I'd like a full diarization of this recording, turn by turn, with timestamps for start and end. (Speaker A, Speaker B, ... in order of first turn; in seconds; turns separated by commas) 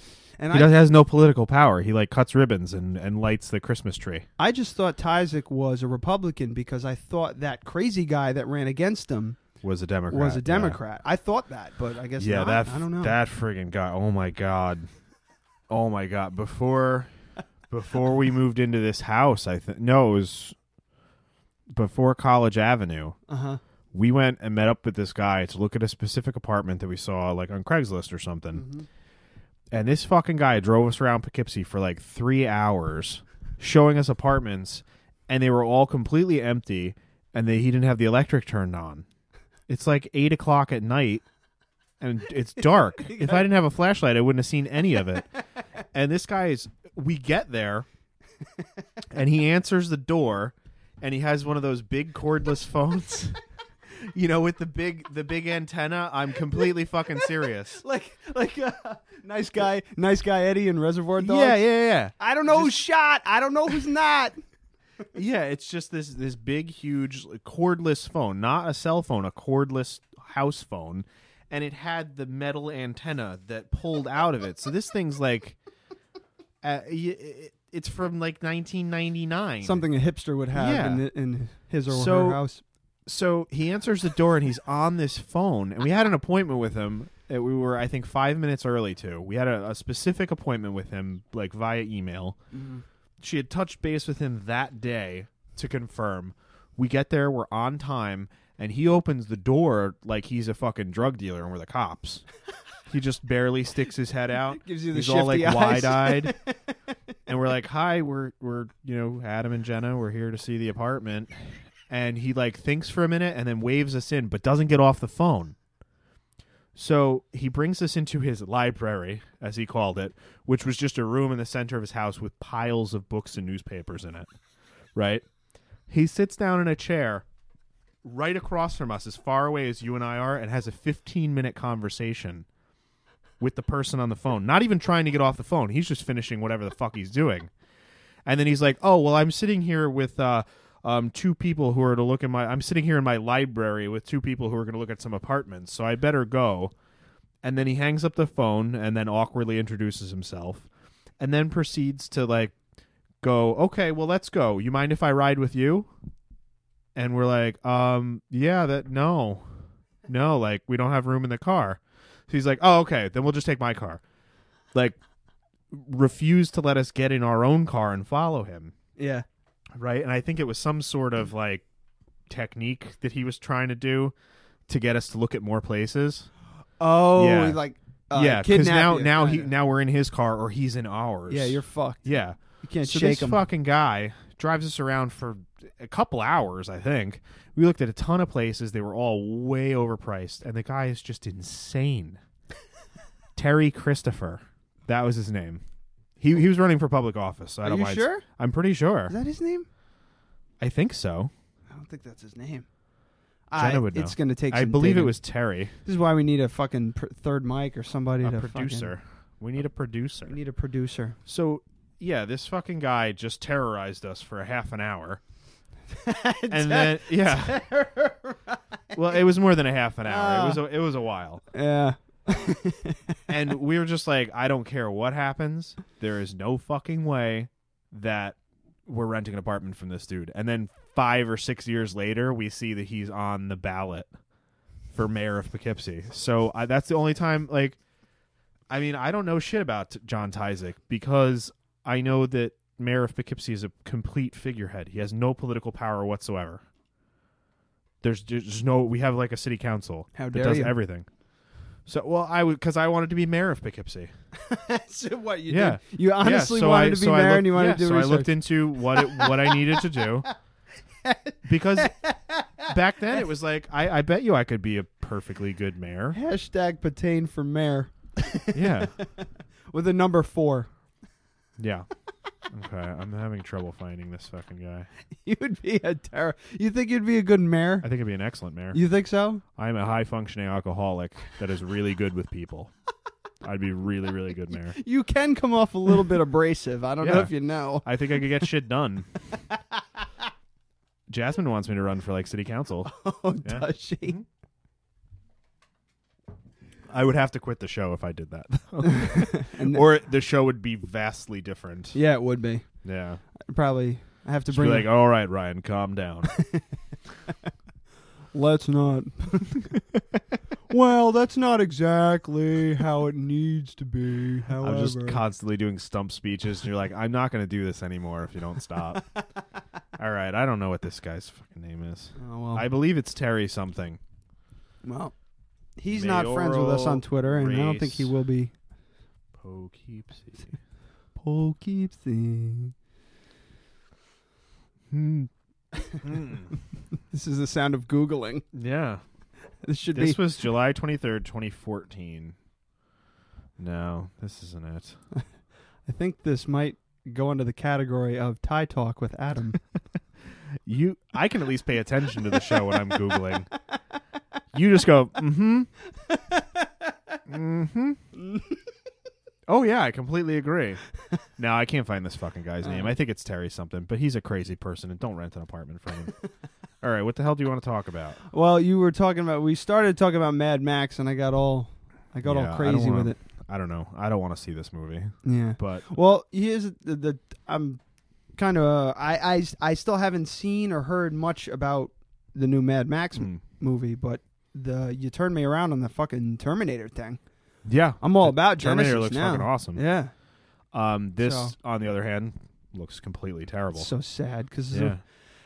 Speaker A: 0.4-0.8, Speaker B: 0.5-4.3, Speaker A: 4.4-9.4, Speaker B: 9.6-10.8, Speaker A: 10.1-13.2, Speaker B: 12.2-14.9, Speaker B: 15.7-17.1, Speaker B: 17.7-20.6, Speaker B: 21.7-23.2, Speaker A: 23.3-23.6, Speaker B: 23.9-28.7, Speaker A: 28.5-28.9, Speaker B: 29.7-39.1, Speaker B: 39.7-41.2, Speaker B: 42.0-45.3, Speaker A: 43.1-43.5, Speaker B: 45.9-47.9, Speaker B: 49.1-57.8, Speaker A: 57.7-61.6, Speaker B: 61.2-62.8, Speaker A: 62.2-64.3, Speaker B: 65.1-75.6, Speaker B: 76.6-79.8, Speaker A: 79.6-82.6, Speaker B: 80.5-81.0, Speaker B: 81.9-82.4, Speaker B: 83.1-92.4, Speaker A: 92.5-92.8, Speaker B: 93.2-102.2, Speaker B: 102.9-106.3, Speaker A: 104.6-106.6, Speaker B: 107.3-115.6, Speaker B: 116.8-124.3, Speaker B: 125.0-125.2, Speaker B: 125.9-127.2, Speaker B: 128.0-132.5, Speaker B: 133.4-137.5, Speaker B: 138.2-146.7, Speaker B: 147.4-150.7, Speaker B: 151.2-152.6, Speaker B: 153.2-155.9, Speaker B: 156.9-164.0, Speaker B: 165.7-168.7, Speaker A: 169.0-169.2, Speaker B: 169.7-171.6, Speaker B: 172.3-174.2, Speaker B: 174.7-176.3, Speaker A: 176.8-179.5, Speaker B: 177.2-192.2, Speaker A: 181.3-182.1, Speaker A: 182.6-183.4, Speaker B: 193.4-195.6, Speaker B: 196.2-199.2, Speaker A: 197.6-198.2, Speaker A: 199.1-199.7, Speaker B: 200.6-201.3, Speaker A: 201.7-202.7, Speaker A: 203.5-205.2, Speaker B: 203.6-205.8, Speaker A: 205.8-208.9, Speaker B: 208.2-210.4, Speaker A: 210.3-211.2, Speaker B: 211.3-215.2, Speaker A: 216.0-218.6, Speaker B: 216.5-217.6, Speaker B: 218.9-221.4, Speaker A: 220.1-220.6, Speaker A: 221.5-223.2, Speaker B: 223.3-234.1, Speaker B: 234.9-237.8, Speaker B: 238.7-246.6, Speaker B: 248.0-251.1, Speaker A: 250.2-250.8, Speaker B: 251.9-254.1, Speaker A: 254.4-260.0, Speaker B: 255.5-260.3, Speaker A: 261.0-263.2, Speaker B: 261.4-262.0, Speaker B: 262.6-266.2, Speaker A: 266.1-270.7, Speaker B: 268.5-269.0, Speaker B: 271.6-271.9, Speaker B: 272.5-274.9, Speaker A: 275.2-277.9, Speaker B: 277.8-278.8, Speaker A: 278.7-279.4, Speaker B: 279.6-282.7, Speaker B: 283.4-284.8, Speaker A: 284.8-287.9, Speaker B: 287.0-289.1, Speaker B: 291.1-294.2, Speaker A: 292.9-294.2, Speaker B: 296.9-302.0, Speaker A: 298.9-299.8, Speaker A: 301.9-302.7, Speaker B: 302.8-303.2, Speaker A: 303.4-304.9, Speaker B: 304.5-306.3, Speaker A: 308.3-309.7, Speaker A: 310.7-315.2, Speaker B: 314.6-319.1, Speaker B: 320.0-324.0, Speaker A: 322.2-322.7, Speaker A: 324.8-325.1, Speaker A: 325.8-328.5, Speaker B: 325.9-328.1, Speaker B: 329.4-330.6, Speaker A: 331.2-332.7, Speaker B: 334.9-335.3, Speaker B: 336.0-336.5, Speaker A: 337.1-338.4, Speaker B: 338.5-339.0, Speaker A: 339.6-340.2, Speaker B: 339.9-342.4, Speaker B: 343.6-345.0, Speaker A: 345.9-349.6, Speaker B: 350.6-353.5, Speaker B: 354.5-355.7, Speaker A: 356.1-356.7, Speaker B: 357.3-358.0, Speaker B: 359.5-360.8, Speaker B: 361.4-366.1, Speaker A: 362.6-362.9, Speaker B: 366.8-368.2, Speaker A: 368.3-373.2, Speaker B: 372.2-375.9, Speaker A: 375.2-377.8, Speaker A: 378.4-387.2, Speaker B: 383.1-383.4, Speaker B: 387.6-389.8, Speaker A: 388.0-390.1, Speaker B: 390.7-393.9, Speaker A: 391.2-391.5, Speaker A: 393.8-395.1, Speaker B: 394.7-395.0